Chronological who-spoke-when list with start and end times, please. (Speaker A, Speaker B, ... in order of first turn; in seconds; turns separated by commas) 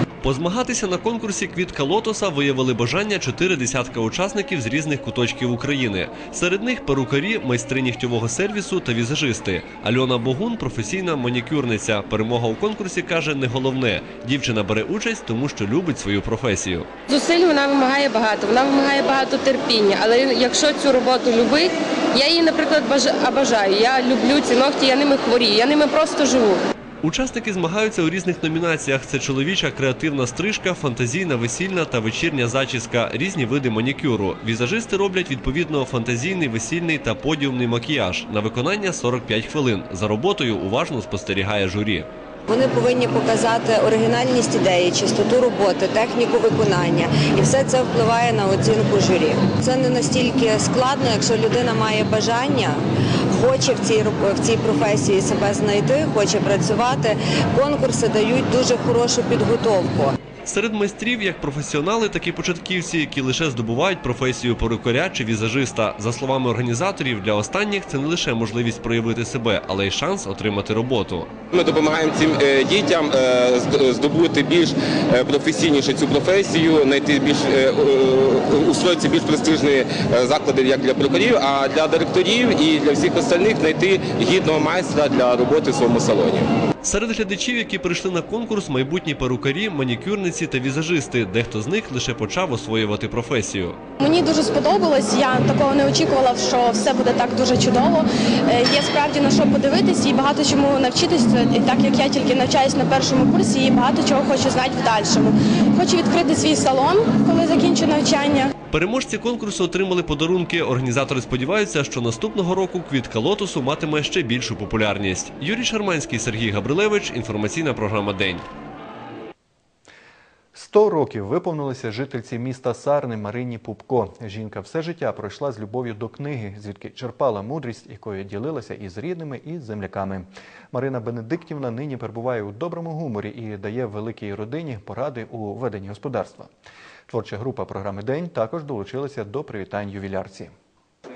Speaker A: 0.2-16.9, Speaker B: 17.1-26.6, Speaker A: 27.0-42.1, Speaker C: 42.5-60.1, Speaker A: 60.5-71.3, Speaker D: 71.5-86.4, Speaker A: 86.8-93.8, Speaker E: 94.0-108.5, Speaker A: 108.7-118.5, Speaker F: 120.5-136.5, Speaker F: 137.1-140.5